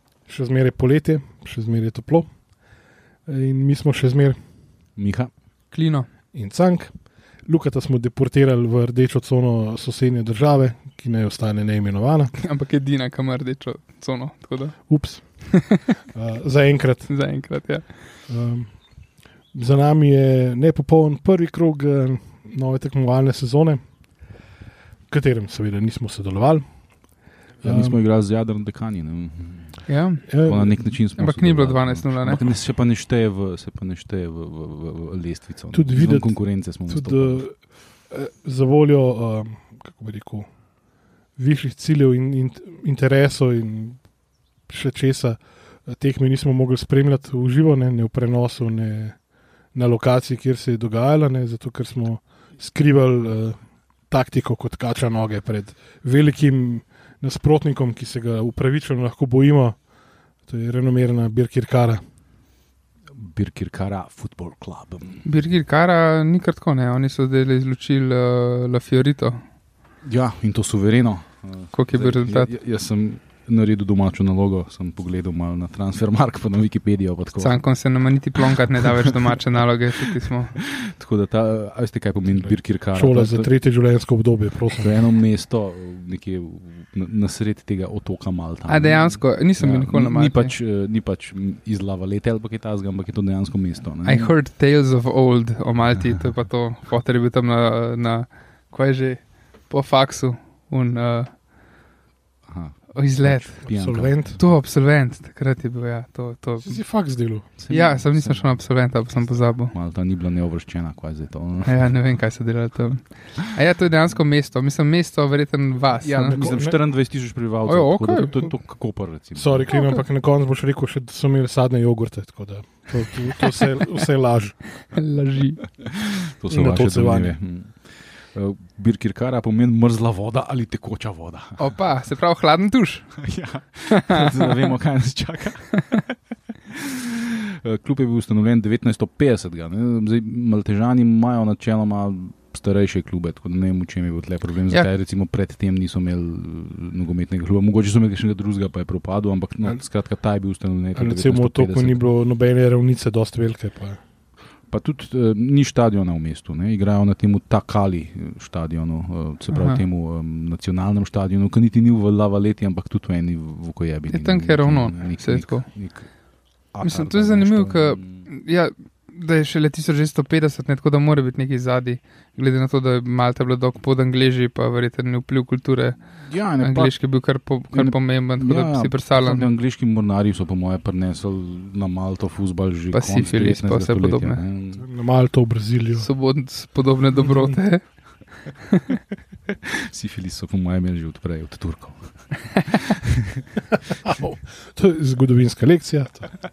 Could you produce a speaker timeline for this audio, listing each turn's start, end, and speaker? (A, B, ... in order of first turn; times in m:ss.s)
0:00.3-0:02.3 A
0:03.2-0:04.4 A
0:05.0-0:05.3 B
0:05.7-0:06.1 C
0:06.3-0:06.9 A
0:07.4-0:12.3 A
0:12.4-0:14.9 C
0:14.9-0:15.4 A
0:15.5-0:15.9 C
0:16.1-0:17.1 A
0:17.1-0:18.0 C
0:18.3-0:18.8 A
0:19.5-0:23.8 A
0:25.1-0:26.6 A
0:27.6-0:28.0 A
0:27.6-0:29.9 B
0:29.9-0:30.3 C
0:30.3-0:30.6 A
0:30.4-0:37.4 B
0:31.2-0:32.4 C
0:35.7-0:40.5 A
0:41.4-0:44.0 A
0:44.7-0:49.2 A
0:49.7-0:53.6 A
0:54.1-0:59.8 A
1:00.5-1:02.0 A
1:03.1-1:05.2 B
1:05.2-1:09.4 C
1:10.0-1:17.6 B
1:11.7-1:12.5 C
1:17.4-1:20.6 C
1:18.4-1:19.4 B
1:20.1-1:23.5 B
1:22.9-1:24.9 A
1:24.8-1:34.3 B
1:28.7-1:30.5 C
1:34.0-1:41.3 C
1:42.5-1:44.2 B
1:42.9-1:43.6 C
1:43.6-1:44.4 A
1:44.4-1:46.8 C
1:46.6-1:47.5 A
1:47.6-1:48.6 B
1:47.7-1:49.7 C
1:49.7-1:52.0 B
1:51.6-1:56.4 C
1:56.0-1:59.7 B
1:56.2-1:56.7 A
1:57.6-1:58.5 C
1:59.4-2:04.6 A
1:59.7-2:00.0 C
2:04.9-2:05.6 C
2:05.8-2:11.6 B
2:06.5-2:07.3 A
2:11.6-2:13.1 C
2:13.2-2:16.1 B
2:13.9-2:14.3 C
2:16.7-2:32.0 B
2:30.9-2:34.0 A
2:34.7-2:46.1 B
2:39.5-2:39.8 C
2:44.1-2:45.7 C
2:46.7-2:48.2 B
2:46.8-2:56.0 C
2:56.2-2:56.9 B
2:56.6-2:59.5 C
2:57.7-3:04.8 B
3:02.9-3:04.4 C
3:04.8-3:06.0 A
3:06.0-3:07.8 C
3:08.7-3:09.0 C
3:09.5-3:13.5 B
3:14.0-3:16.3 A